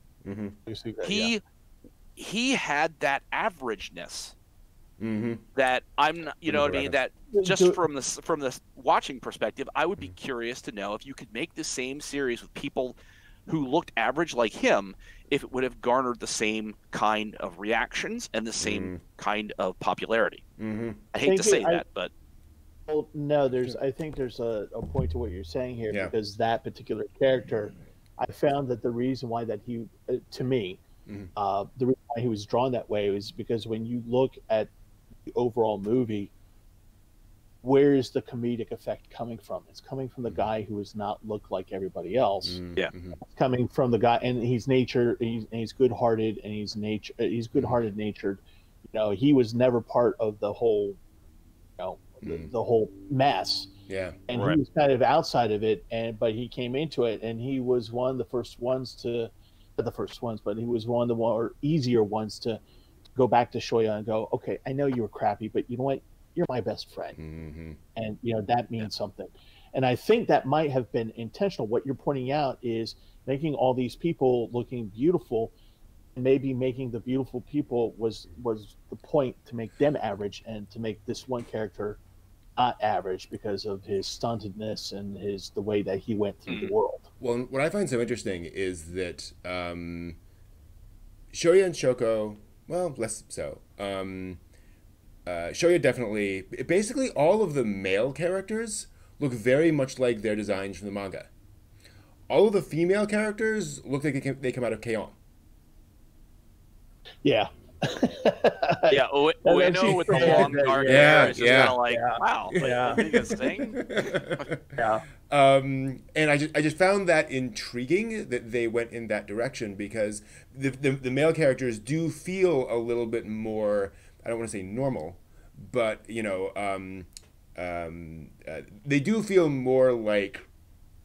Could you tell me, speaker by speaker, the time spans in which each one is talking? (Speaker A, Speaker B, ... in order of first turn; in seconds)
Speaker A: 0.2-0.6, 5.0-5.4, 6.5-7.0, 18.6-19.0, 20.6-21.0, 42.4-43.2, 52.2-52.5, 53.9-54.2, 67.2-67.8, 87.2-90.2, 91.3-94.4, 95.2-101.3, 102.3-105.2, 109.8-111.8, 112.5-114.8, 115.3-130.5
Speaker B: 0.7-1.3, 7.3-7.8, 21.2-21.8, 22.9-30.8, 31.4-34.7, 35.3-36.3, 37.6-42.6, 43.2-51.0, 51.8-53.7, 54.3-62.6, 63.1-67.1, 67.9-75.5, 76.2-82.0, 82.6-87.1, 107.2-113.0, 114.8-115.0
Speaker C: 1.0-1.4, 2.1-4.3, 5.5-12.9, 13.5-20.4, 21.1-22.1, 54.3-54.6, 86.5-86.7, 108.9-114.4